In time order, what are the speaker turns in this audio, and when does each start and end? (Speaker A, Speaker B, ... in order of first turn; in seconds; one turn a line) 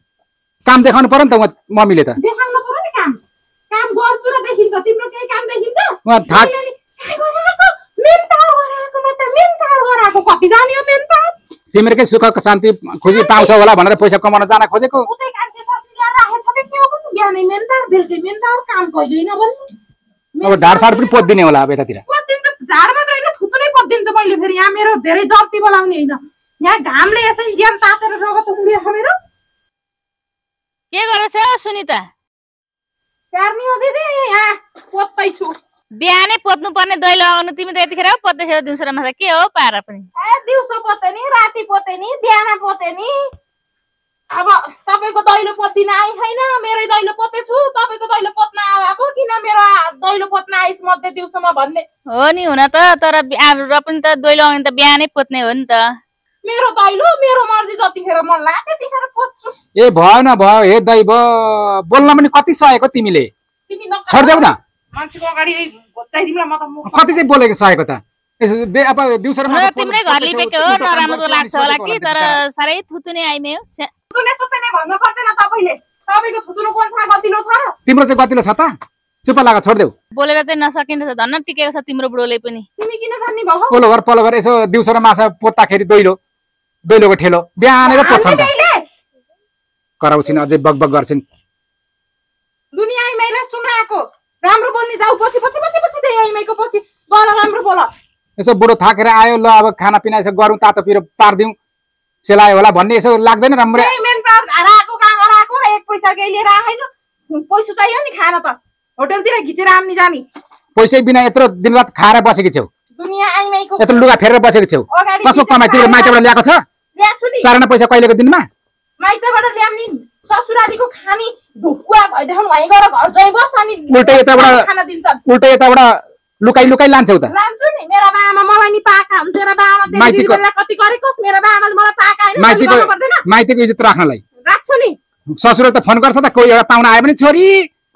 Speaker A: 0.7-2.2
Speaker B: 2.2-11.3
Speaker A: 6.1-6.5
Speaker A: 11.7-15.1
Speaker B: 13.0-13.6
Speaker B: 15.0-19.6
Speaker B: 20.4-21.3
Speaker A: 20.4-22.0
Speaker B: 22.1-29.2
Speaker C: 30.9-32.1
Speaker B: 33.3-35.5
Speaker C: 36.0-40.1
Speaker B: 40.2-43.3
Speaker B: 44.3-51.9
Speaker C: 52.1-55.9
Speaker B: 56.4-59.6
Speaker A: 59.8-63.3
Speaker B: 63.7-67.2
Speaker A: 64.1-64.6
Speaker A: 66.9-72.4
Speaker C: 69.5-73.9
Speaker B: 74.1-77.7
Speaker A: 77.9-79.9
Speaker C: 80.2-82.7
Speaker B: 82.8-83.8
Speaker A: 83.7-86.2
Speaker A: 86.9-88.5
Speaker B: 87.8-88.8
Speaker A: 90.0-91.2
Speaker B: 92.7-97.9
Speaker A: 98.4-101.5
Speaker A: 102.2-103.9
Speaker B: 103.7-110.2
Speaker A: 110.8-112.7
Speaker B: 113.0-114.1
Speaker A: 113.8-116.6
Speaker B: 114.9-116.2
Speaker B: 117.0-117.5
Speaker A: 117.4-118.5
Speaker B: 119.0-125.2
Speaker A: 123.9-124.7
Speaker A: 125.2-127.3
Speaker B: 127.3-133.2
Speaker A: 129.9-130.4
Speaker A: 132.4-134.2
Speaker B: 134.4-135.0
Speaker A: 135.3-137.7